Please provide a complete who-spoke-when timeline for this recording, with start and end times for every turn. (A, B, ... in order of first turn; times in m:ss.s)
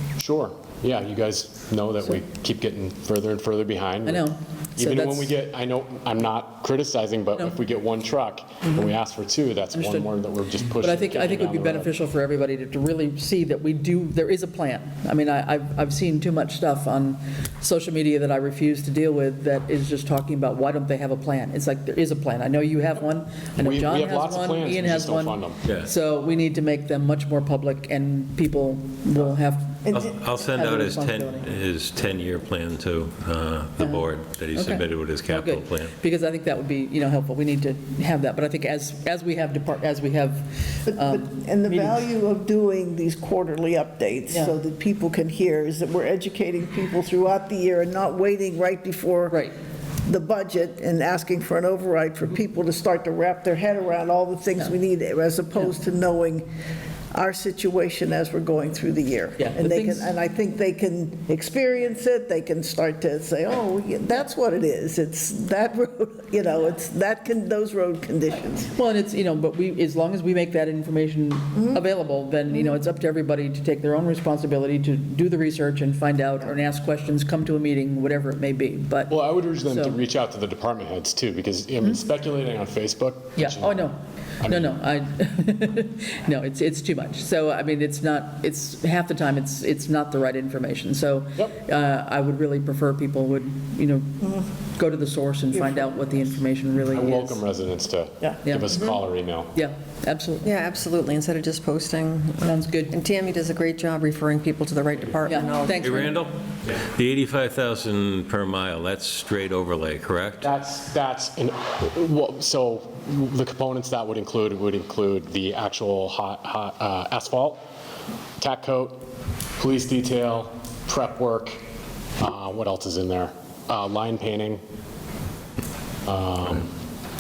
0:00.2-0:11.9 A
0:04.0-0:05.3 B
0:09.7-0:10.1 B
0:10.8-0:31.5 B
0:23.6-0:25.6 A
0:29.8-0:30.1 C
0:29.9-0:35.9 D
0:33.8-0:42.0 B
0:40.8-0:49.4 C
0:50.0-0:56.5 C
0:57.1-1:08.7 C
0:59.4-1:00.1 B
1:08.7-1:20.0 B
1:19.1-1:24.8 A
1:23.4-1:37.4 B
1:35.6-1:36.0 C
1:36.9-1:39.5 A
1:38.2-1:38.9 C
1:38.4-1:38.8 B
1:39.5-1:40.5 B
1:40.4-1:46.0 E
1:42.4-1:43.0 B
1:45.3-1:46.2 B
1:45.8-1:50.5 D
1:50.4-1:57.6 A
1:58.4-1:59.0 A
1:59.6-2:01.6 A
2:02.2-2:04.6 A
2:06.0-2:06.7 A